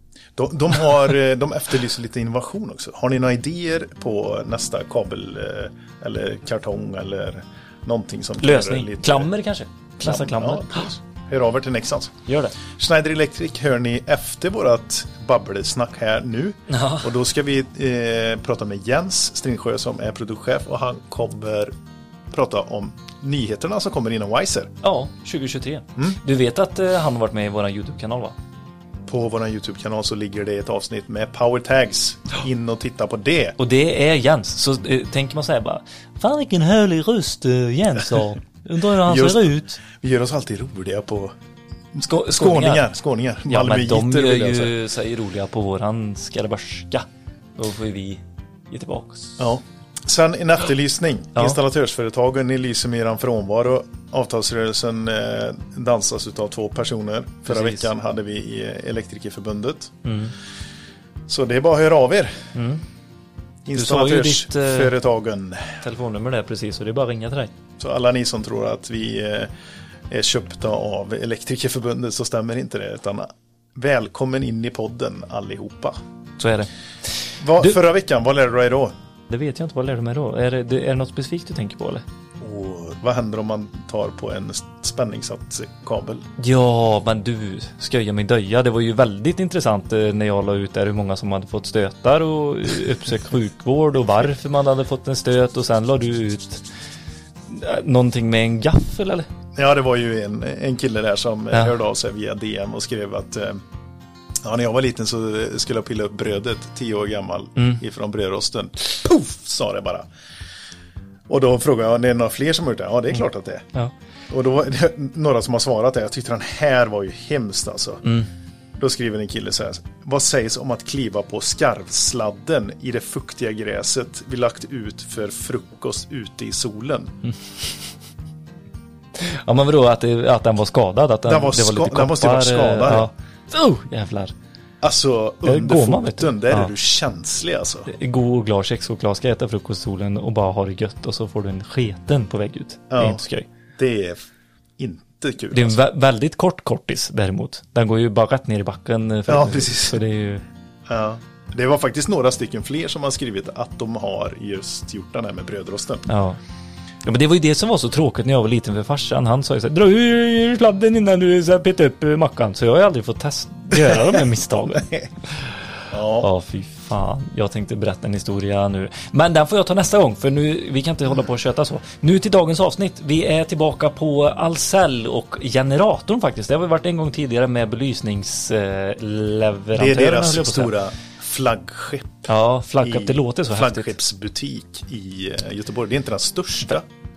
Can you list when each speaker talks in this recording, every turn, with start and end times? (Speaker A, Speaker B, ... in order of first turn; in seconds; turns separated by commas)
Speaker A: 0.4-9.3, Speaker B: 8.4-10.9, Speaker A: 10.0-12.2, Speaker B: 12.2-12.6, Speaker A: 12.7-21.7, Speaker B: 16.7-17.1, Speaker A: 22.3-24.7, Speaker B: 24.8-28.3, Speaker A: 29.1-33.6, Speaker B: 33.6-39.8, Speaker A: 39.0-41.3, Speaker B: 42.0-42.9, Speaker A: 42.3-44.7, Speaker B: 43.5-47.0, Speaker B: 47.6-49.5, Speaker A: 49.4-60.0, Speaker B: 57.5-57.9, Speaker B: 60.0-60.3, Speaker A: 61.3-62.4, Speaker B: 62.5-62.8, Speaker A: 63.6-65.8, Speaker B: 63.7-64.9, Speaker B: 65.8-67.5, Speaker A: 67.8-69.5, Speaker A: 70.1-76.0, Speaker B: 76.4-76.7, Speaker A: 77.4-78.9, Speaker B: 79.3-82.0, Speaker A: 82.4-86.2, Speaker B: 86.4-96.6, Speaker B: 97.5-99.3, Speaker A: 99.6-103.6, Speaker A: 104.4-110.0, Speaker A: 111.3-113.6, Speaker A: 114.3-118.0, Speaker A: 118.8-127.1, Speaker B: 129.2-134.3, Speaker A: 131.3-133.1, Speaker A: 134.8-137.9, Speaker B: 135.4-136.7, Speaker B: 137.9-143.4, Speaker A: 142.9-143.2, Speaker A: 143.8-144.2, Speaker A: 144.8-145.8, Speaker B: 145.5-150.4, Speaker A: 149.3-150.0, Speaker A: 150.9-156.0, Speaker B: 156.1-156.4, Speaker B: 157.1-164.9, Speaker A: 165.9-166.2, Speaker B: 166.2-180.7, Speaker A: 179.8-182.3, Speaker B: 182.3-183.9, Speaker A: 182.8-186.8